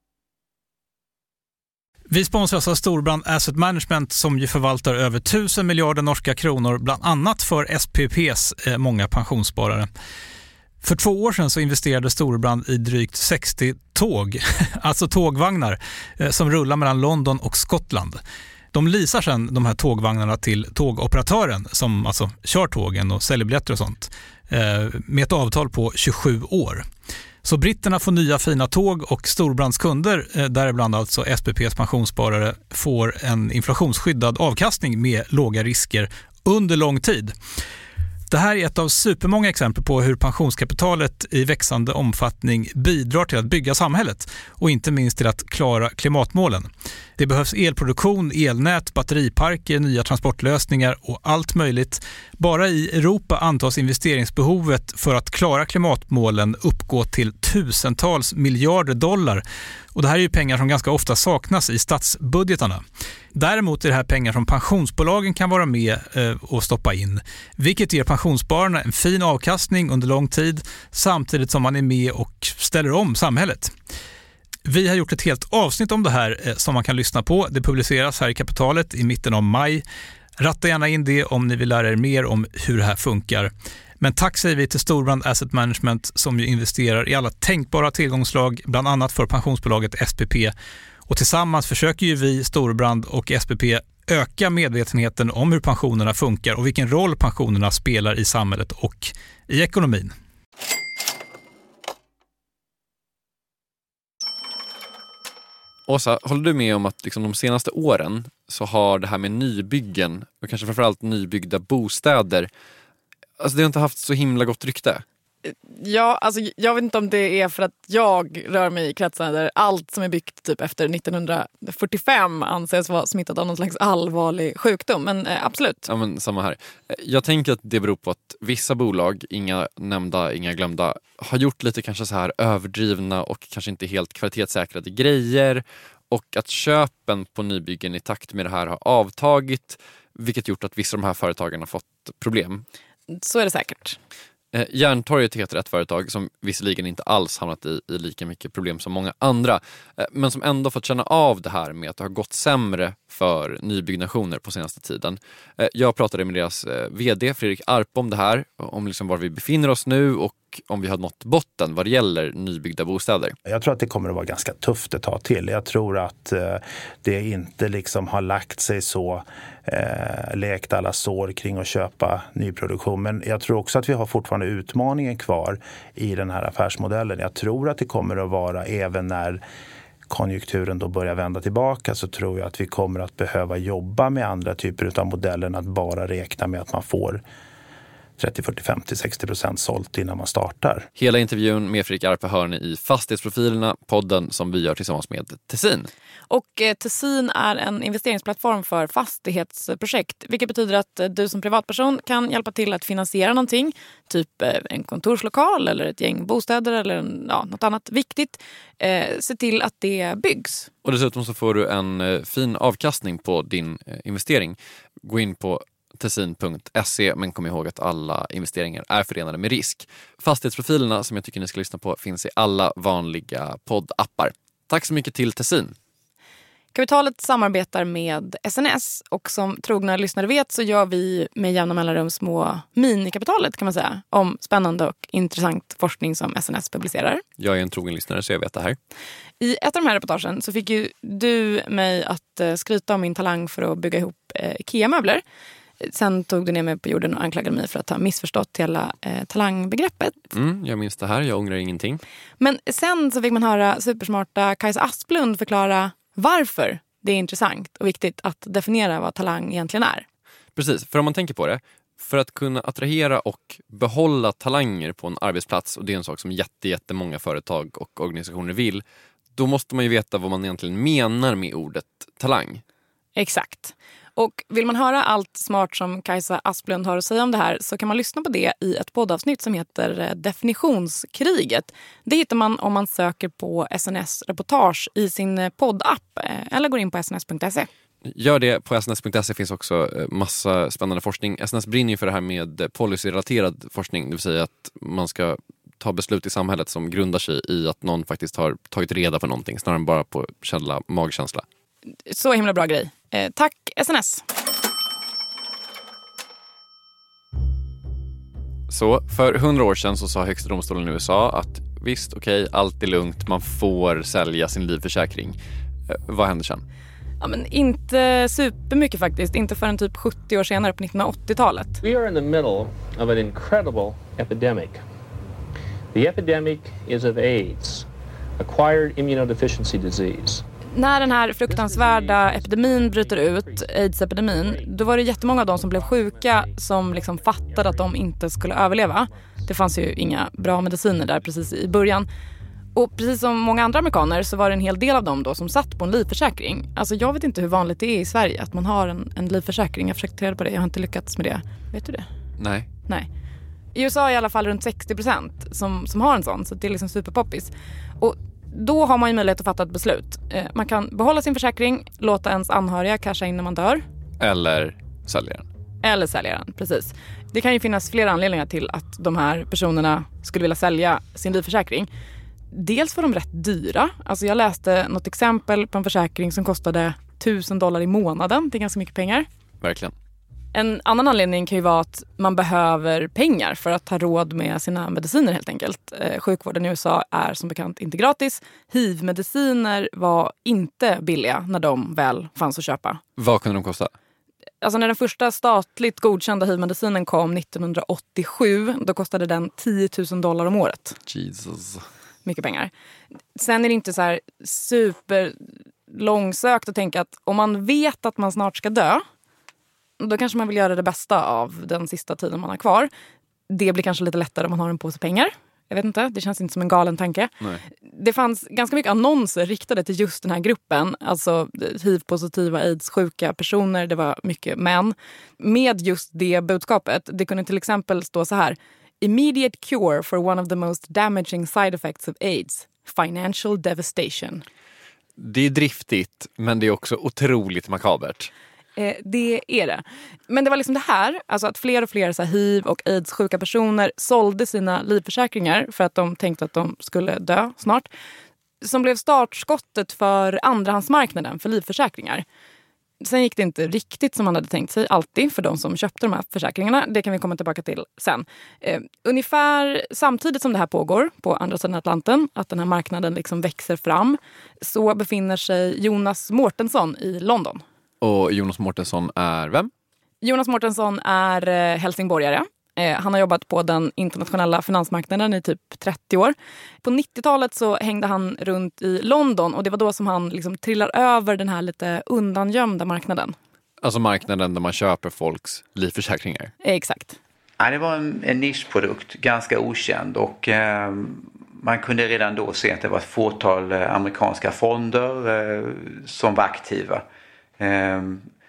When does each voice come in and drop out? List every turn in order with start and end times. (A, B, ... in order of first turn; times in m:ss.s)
0:02.1-0:09.9 A
0:10.8-0:18.2 A
0:18.7-0:26.9 A
0:27.4-0:37.3 A
0:38.3-0:59.4 A
0:59.9-1:02.8 A
1:03.3-1:13.7 A
1:14.6-1:19.8 A
1:20.4-1:30.5 A
1:31.1-1:40.1 A
1:45.9-1:52.5 B
1:53.4-1:55.0 B
1:55.4-2:05.8 C
2:05.8-2:22.6 B
2:23.1-2:24.0 C
2:24.5-2:43.4 B
2:43.5-2:59.4 D
3:00.1-3:07.2 D
3:08.2-3:10.9 D
3:11.0-3:15.9 B
3:16.3-3:30.7 C
3:30.8-3:45.8 B
3:46.7-3:57.2 C
3:57.4-3:58.8 B
3:59.4-4:05.2 C
4:05.8-4:10.2 C
4:10.3-4:12.0 B
4:12.4-4:20.0 C
4:20.6-4:28.8 B
4:29.3-4:32.6 B
4:33.2-4:47.7 C
4:48.0-5:01.4 B
5:02.0-5:04.2 C
5:08.7-5:16.6 B
5:17.2-5:21.8 C
5:21.8-5:24.8 E
5:25.9-5:27.9 E
5:28.4-5:30.4 E
5:30.7-5:42.1 C
5:31.5-5:33.7 E
5:34.3-5:34.7 E
5:36.1-5:37.6 E
5:42.7-5:52.0 C
5:52.4-5:52.7 B
5:53.7-6:03.8 C
6:04.2-6:05.4 B
6:05.8-6:11.9 C
6:12.5-6:19.3 C
6:19.6-6:19.9 B
6:20.5-6:33.0 C
6:33.2-6:33.9 B
6:34.6-6:41.0 C
6:41.1-6:41.8 B
6:42.2-6:42.7 C
6:43.4-6:49.0 C
6:50.0-6:52.9 C
6:53.5-6:57.3 C
6:57.8-7:14.4 C
7:15.2-7:18.3 B
7:18.8-7:27.9 C
7:28.6-7:32.2 C
7:33.0-7:47.6 C
7:48.0-7:49.7 B
7:50.2-8:03.4 C
8:03.8-8:06.5 B
8:06.6-8:07.2 C
8:07.6-8:17.0 F
8:17.6-8:18.2 F